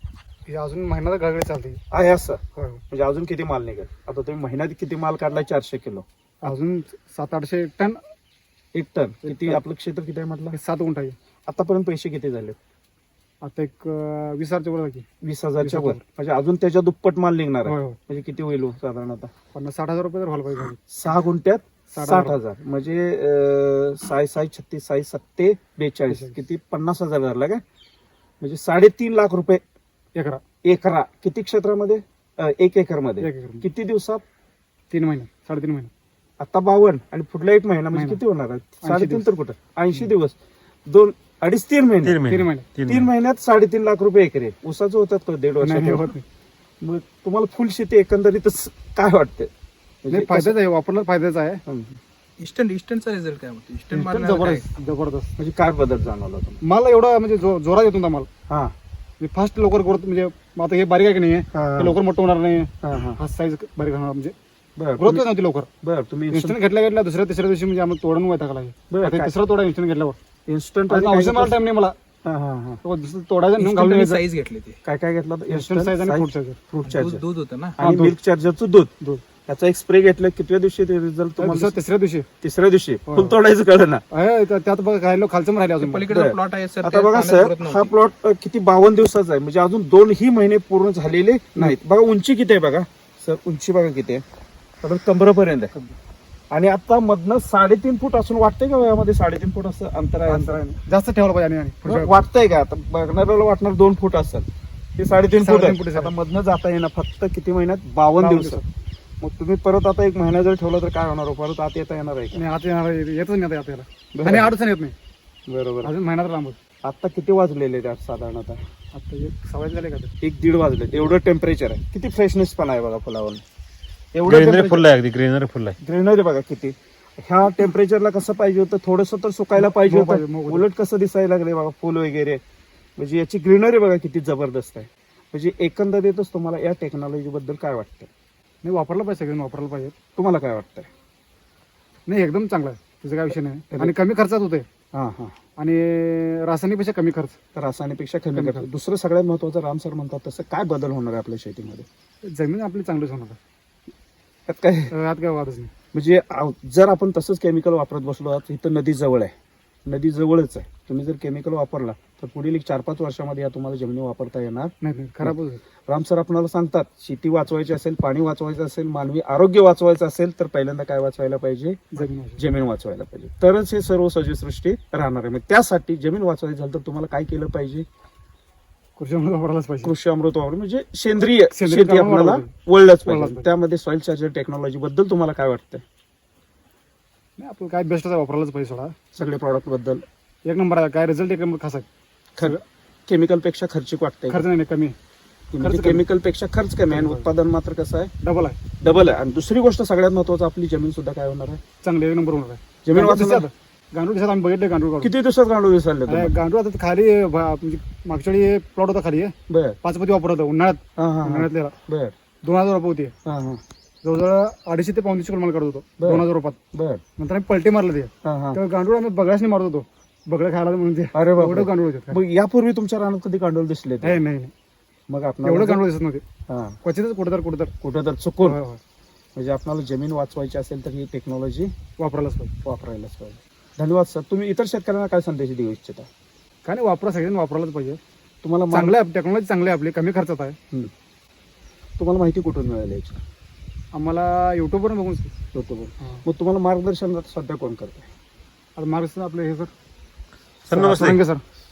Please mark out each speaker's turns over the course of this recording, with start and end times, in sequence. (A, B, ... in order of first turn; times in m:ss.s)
0:00.5-0:01.8 A
0:01.9-0:06.0 B
0:02.6-0:02.8 A
0:06.4-0:08.0 A
0:08.7-0:10.6 B
0:09.2-0:09.6 A
0:10.5-0:11.2 A
0:11.5-0:12.6 B
0:13.4-0:15.1 A
0:15.2-0:19.3 B
0:15.6-0:16.0 A
0:17.7-0:18.0 A
0:19.5-0:20.8 A
0:20.9-0:27.6 B
0:21.9-0:22.4 A
0:26.1-0:26.4 A
0:28.4-0:29.6 B
0:30.2-0:30.4 A
0:30.6-0:34.2 B
0:33.2-0:33.7 A
0:34.9-0:35.9 A
0:36.4-0:40.4 B
0:37.9-0:38.2 A
0:38.8-0:39.2 A
0:40.9-0:42.2 B
0:42.0-0:43.1 C
0:42.2-0:42.7 A
0:42.9-0:46.2 B
0:45.6-0:46.2 A
0:46.8-0:49.5 B
0:50.0-0:50.6 B
0:50.1-0:51.6 A
0:51.7-0:52.0 B
0:52.4-0:54.7 D
0:53.9-0:55.3 A
0:55.4-0:56.6 B
0:56.6-0:58.3 A
0:58.5-0:58.7 B
0:59.2-1:04.4 A
1:01.5-1:02.0 B
1:02.8-1:03.2 B
1:04.8-1:05.2 B
1:05.0-1:05.7 A
1:05.8-1:06.6 B
1:06.3-1:10.2 A
1:08.9-1:09.3 B
1:10.5-1:11.6 B
1:10.9-1:12.0 A
1:12.2-1:12.8 B
1:12.8-1:14.2 A
1:13.6-1:14.8 D
1:14.8-1:17.2 B
1:15.5-1:16.6 A
1:16.8-1:17.8 D
1:17.8-1:18.9 B
1:17.8-1:18.2 A
1:19.5-1:21.8 B
1:21.4-1:22.3 A
1:22.4-1:24.0 B
1:23.1-1:23.4 A
1:24.1-1:26.1 A
1:25.8-1:27.9 D
1:26.1-1:34.2 B
1:34.8-1:35.7 B
1:36.5-1:40.6 B
1:40.3-1:42.2 A
1:41.8-1:44.5 B
1:45.0-1:48.6 B
1:45.4-1:46.1 A
1:48.2-1:48.6 A
1:49.2-1:52.4 B
1:52.3-1:55.0 A
1:54.2-1:54.5 B
1:55.5-1:55.9 B
1:55.8-1:56.6 A
1:56.8-1:58.6 B
1:58.9-2:00.1 A
2:00.2-2:03.4 B
2:04.1-2:04.8 B
2:04.2-2:05.8 C
2:05.8-2:12.4 B
2:09.6-2:10.6 A
2:13.0-2:18.1 B
2:18.6-2:19.9 A
2:20.2-2:20.9 B
2:22.1-2:24.6 A
2:24.9-2:25.4 B
2:25.6-2:27.4 A
2:27.6-2:31.9 B
2:28.4-2:28.7 A
2:32.3-2:33.4 A
2:34.5-2:34.9 B
2:34.9-2:35.7 A
2:35.9-2:39.3 B
2:39.9-2:44.7 B
2:44.8-2:45.6 A
2:45.9-2:57.9 B
2:51.9-2:52.4 A
2:59.0-2:59.9 A
2:59.8-3:05.8 B
3:01.5-3:02.5 A
3:03.1-3:03.5 A
3:07.4-3:08.9 A
3:09.2-3:10.0 B
3:10.5-3:11.9 A
3:12.4-3:14.4 B
3:14.3-3:15.0 A
3:15.5-3:18.1 B
3:15.6-3:16.0 A
3:16.9-3:17.3 A
3:18.2-3:18.6 A
3:18.8-3:21.6 B
3:21.8-3:25.1 A
3:22.8-3:23.5 B
3:25.0-3:26.4 B
3:26.1-3:31.7 A
3:29.5-3:29.8 B
3:31.0-3:32.1 B
3:32.4-3:33.1 A
3:33.2-3:33.6 B
3:34.0-3:36.6 A
3:36.0-3:37.0 B
3:37.2-3:42.2 A
3:38.2-3:38.6 B
3:41.1-3:44.2 B
3:44.0-3:44.5 A
3:45.1-3:45.8 B
3:45.4-3:46.2 A
3:46.5-3:46.8 B
3:46.8-3:47.7 A
3:47.8-3:48.6 B
3:48.4-3:48.8 A
3:49.4-3:51.7 B
3:52.0-3:52.5 A
3:52.6-3:56.1 B
3:56.6-3:58.0 A
3:58.4-3:59.0 B
3:58.7-4:00.6 A
4:02.0-4:03.2 B
4:03.9-4:05.3 A
4:05.5-4:08.1 B
4:08.8-4:09.7 A
4:10.7-4:11.2 C
4:10.7-4:11.4 A